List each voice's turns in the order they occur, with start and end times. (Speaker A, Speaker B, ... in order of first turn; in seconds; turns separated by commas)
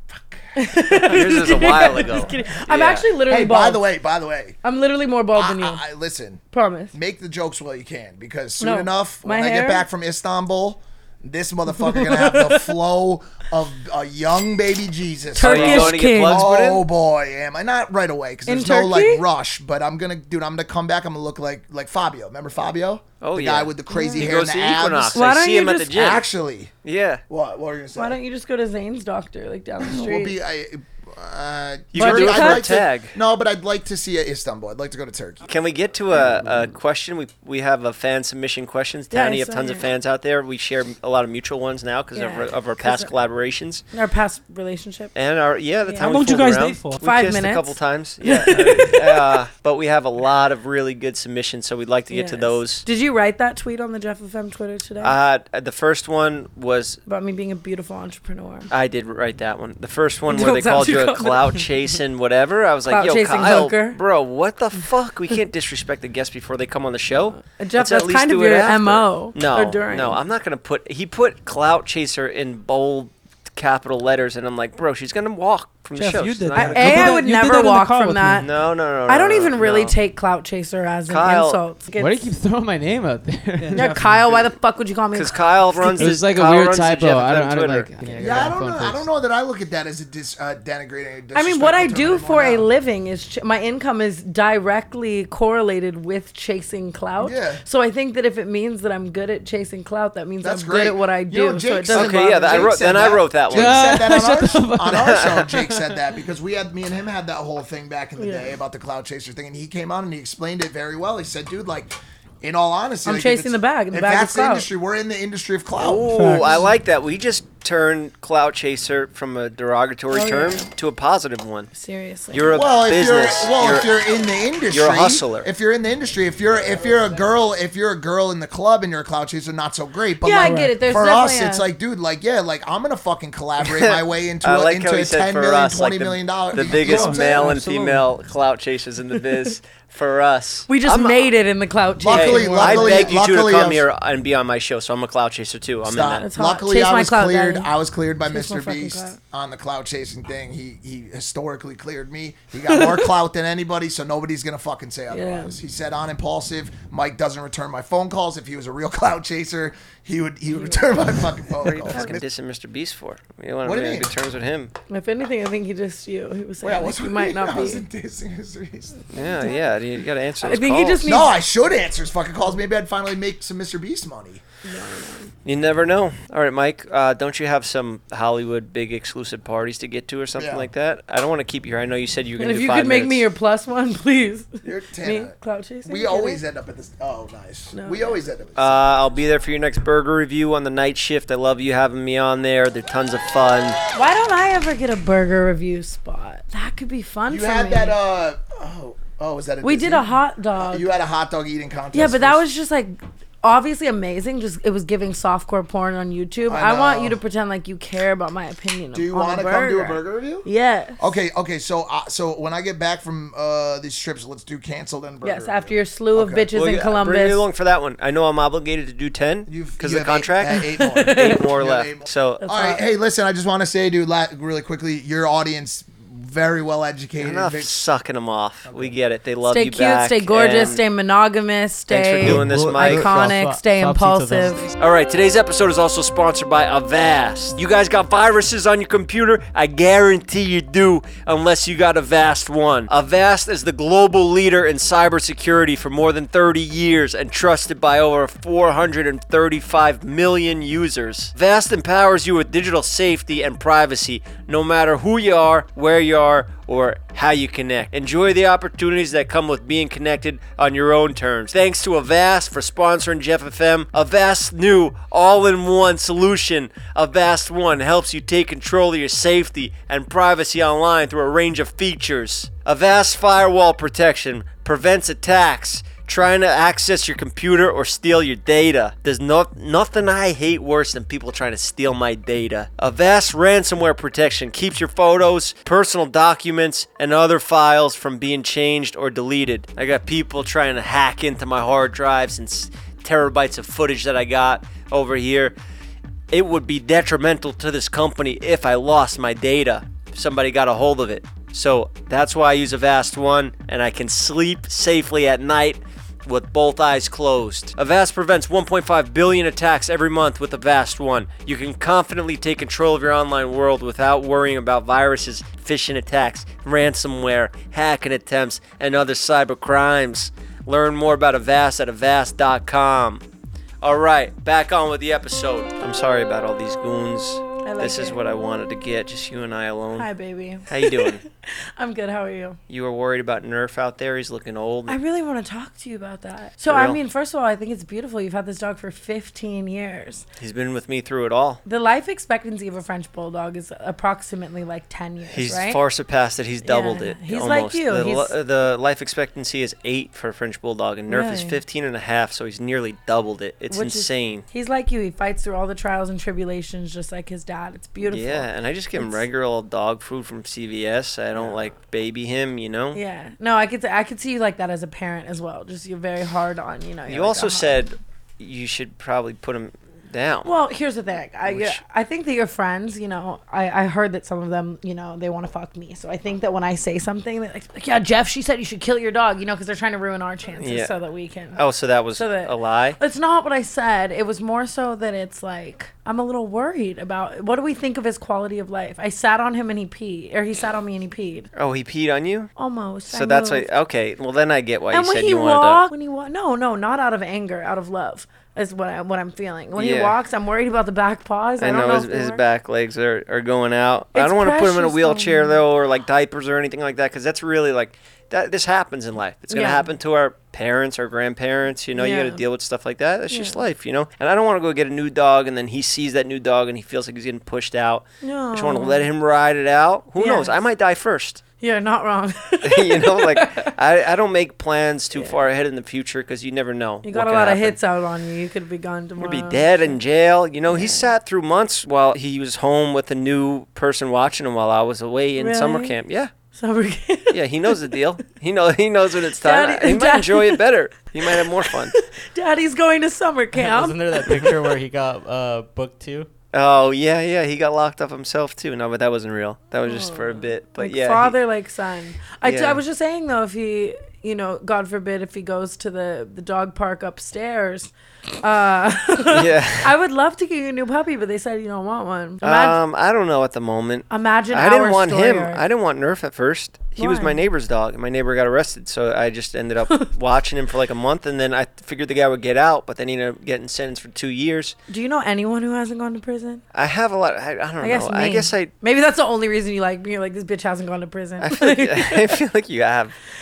Speaker A: 0.1-1.0, Speaker B: 0.6-3.9, Speaker C: 1.0-3.1, Speaker A: 3.3-4.6, Speaker B: 4.6-5.8, Speaker A: 5.3-6.4, Speaker B: 6.5-6.9, Speaker A: 6.9-25.3, Speaker B: 8.6-9.9, Speaker B: 11.8-12.7, Speaker B: 15.3-16.4, Speaker C: 15.4-16.9, Speaker B: 18.5-19.2, Speaker C: 23.2-26.2, Speaker B: 23.9-24.3, Speaker B: 25.1-26.1, Speaker A: 25.9-26.7, Speaker C: 26.8-27.2, Speaker A: 27.3-28.2, Speaker B: 27.9-30.4, Speaker A: 29.8-35.5, Speaker C: 31.9-33.2, Speaker B: 32.0-32.7, Speaker C: 35.5-43.8, Speaker B: 39.1-39.9, Speaker B: 42.1-43.1, Speaker B: 43.9-45.1, Speaker C: 45.1-52.8, Speaker B: 45.8-46.2, Speaker D: 46.0-47.0, Speaker B: 47.0-49.4, Speaker B: 52.1-55.2, Speaker C: 55.0-57.0, Speaker B: 57.1-58.7, Speaker C: 58.7-77.2, Speaker B: 60.3-61.6, Speaker B: 62.9-64.0, Speaker B: 67.4-70.2, Speaker D: 76.0-78.4, Speaker B: 76.6-78.5, Speaker C: 78.4-80.0, Speaker B: 79.1-82.3, Speaker C: 81.1-81.6, Speaker D: 82.0-84.4, Speaker B: 83.7-86.1, Speaker C: 85.1-88.2, Speaker D: 85.8-89.1, Speaker A: 88.2-92.7, Speaker B: 91.3-102.6, Speaker A: 97.2-97.6, Speaker A: 100.4-116.7, Speaker C: 101.9-104.0, Speaker D: 103.5-106.0, Speaker C: 104.9-105.4, Speaker B: 108.2-108.6, Speaker B: 113.0-114.7, Speaker C: 115.8-121.7, Speaker B: 120.1-120.7, Speaker B: 121.7-122.5, Speaker C: 122.3-123.9, Speaker A: 122.5-137.5, Speaker C: 124.7-125.5, Speaker B: 130.2-131.7, Speaker C: 133.6-141.3, Speaker D: 136.9-138.0, Speaker B: 140.7-143.1, Speaker A: 142.0-143.9, Speaker C: 142.1-146.3, Speaker A: 145.8-162.2, Speaker B: 146.2-147.7, Speaker B: 148.3-149.2, Speaker B: 152.7-153.1, Speaker B: 155.1-155.5, Speaker B: 160.6-160.8, Speaker C: 161.6-164.7, Speaker B: 161.9-162.2, Speaker A: 163.6-164.1, Speaker B: 164.9-167.8, Speaker A: 166.6-169.5, Speaker C: 169.1-171.1, Speaker B: 170.4-171.4, Speaker A: 171.0-174.4, Speaker B: 174.7-175.3, Speaker C: 175.4-183.2, Speaker A: 180.3-180.7, Speaker B: 182.4-186.4, Speaker A: 184.6-188.9, Speaker B: 187.7-188.2, Speaker C: 188.6-193.8, Speaker B: 193.9-198.0, Speaker A: 197.3-202.4, Speaker B: 199.6-200.9, Speaker B: 201.9-211.0, Speaker A: 206.5-207.2, Speaker A: 208.9-210.5, Speaker A: 211.0-216.5, Speaker B: 215.2-217.4, Speaker C: 216.5-222.4, Speaker A: 219.5-227.9, Speaker B: 220.7-221.4, Speaker B: 222.4-222.8, Speaker C: 227.2-230.8, Speaker A: 228.7-229.0, Speaker B: 229.5-234.7, Speaker C: 231.9-233.2, Speaker E: 233.1-234.6, Speaker C: 234.8-295.6, Speaker C: 296.3-323.2, Speaker C: 323.8-330.1, Speaker B: 327.6-328.2, Speaker B: 330.0-332.6, Speaker C: 330.7-331.2, Speaker C: 332.7-335.0, Speaker B: 334.9-340.2, Speaker C: 336.7-337.0, Speaker C: 340.4-341.6, Speaker B: 341.7-345.8, Speaker C: 345.3-354.5, Speaker B: 346.6-348.3, Speaker B: 351.1-351.6, Speaker B: 353.7-359.2, Speaker C: 358.0-363.0, Speaker B: 361.3-361.6, Speaker B: 362.9-367.9, Speaker C: 367.1-370.5, Speaker B: 370.4-381.6, Speaker C: 371.4-371.8, Speaker C: 380.6-380.9, Speaker C: 381.6-383.0, Speaker B: 382.2-391.5, Speaker C: 391.6-392.5, Speaker B: 392.6-393.7, Speaker C: 393.1-395.8, Speaker B: 394.9-402.4, Speaker C: 399.8-400.1, Speaker C: 401.6-421.4, Speaker B: 404.1-405.6, Speaker B: 409.5-409.9, Speaker B: 412.0-412.4, Speaker B: 413.3-413.6, Speaker B: 418.2-419.1, Speaker B: 420.2-420.6, Speaker B: 421.6-423.7, Speaker C: 422.6-427.8, Speaker B: 427.0-430.0, Speaker C: 429.2-436.3, Speaker B: 430.7-431.1, Speaker B: 435.4-435.9, Speaker B: 436.5-437.9, Speaker C: 437.3-441.9, Speaker B: 439.4-441.7, Speaker B: 442.3-444.5, Speaker E: 443.6-446.3, Speaker C: 446.5-451.4, Speaker B: 449.8-462.8, Speaker C: 452.4-452.8, Speaker C: 459.3-459.9, Speaker C: 462.4-474.8, Speaker B: 464.1-465.6, Speaker B: 467.0-467.4, Speaker B: 474.9-476.6, Speaker C: 476.7-478.7, Speaker B: 477.8-482.4, Speaker C: 481.4-483.1